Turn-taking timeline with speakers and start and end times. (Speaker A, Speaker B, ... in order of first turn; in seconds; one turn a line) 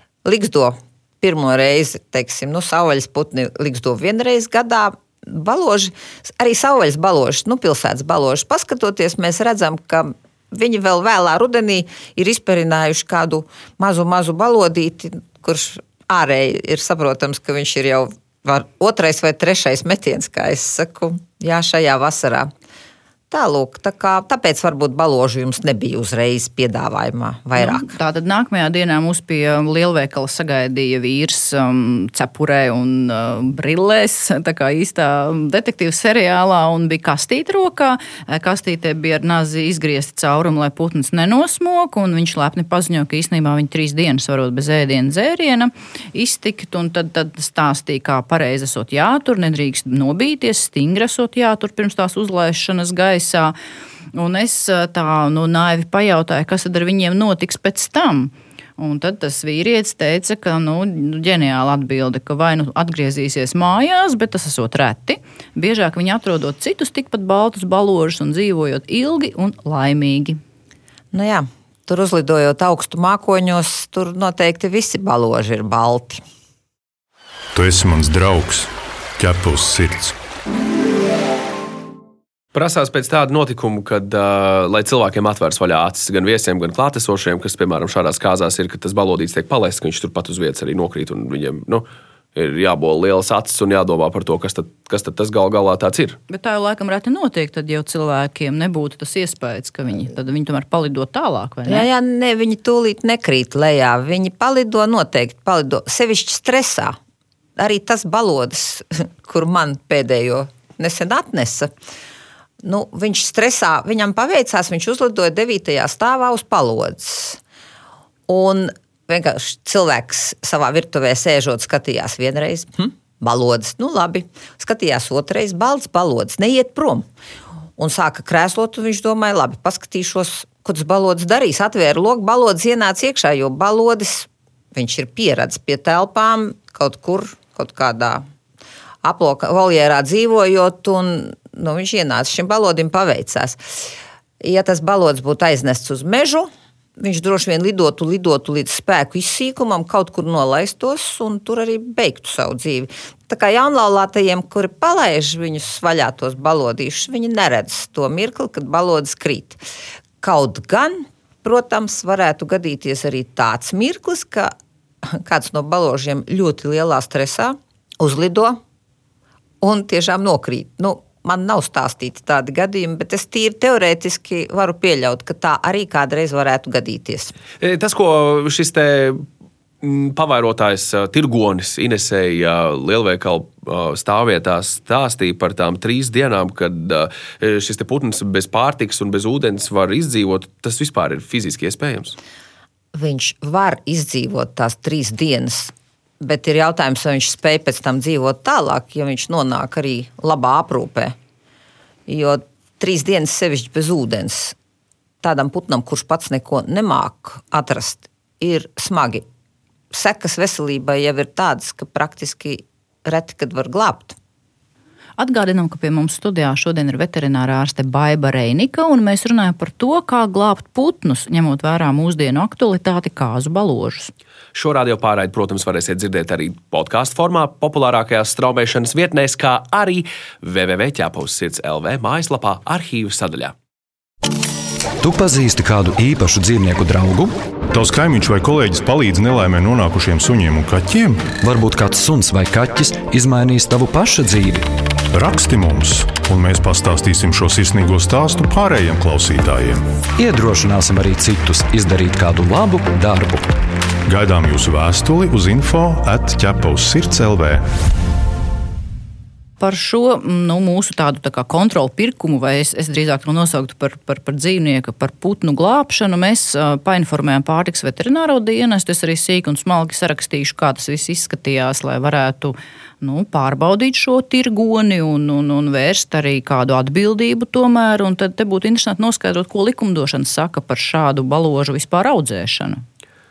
Speaker A: 0.2-22.5
Speaker A: 23.3-28.0
Speaker B: 27.6-53.5
Speaker B: 54.1-70.4
Speaker A: 71.1-76.2
Speaker C: 77.5-80.2
Speaker D: 82.5-96.2
Speaker B: 96.3-101.9
Speaker A: 101.7-107.0
Speaker A: 107.6-111.7
Speaker A: 112.6-117.4
Speaker A: 118.3-127.1
Speaker A: 127.8-138.2
Speaker A: 139.0-143.6
Speaker A: 144.4-159.6
Speaker A: 160.2-168.6
Speaker A: 169.6-177.3
Speaker D: 177.6-179.2
Speaker D: 179.8-192.2
Speaker A: 192.9-201.2
Speaker A: 202.1-204.6
Speaker A: 205.2-209.2
Speaker A: 209.9-214.2
Speaker B: 215.2-224.1
Speaker D: 224.5-233.5
Speaker E: 235.0-237.4
Speaker C: 237.7-241.3
Speaker E: 241.4-244.7
Speaker C: 245.1-249.8
Speaker E: 250.2-253.6
Speaker C: 254.1-257.7
Speaker B: 259.6-282.8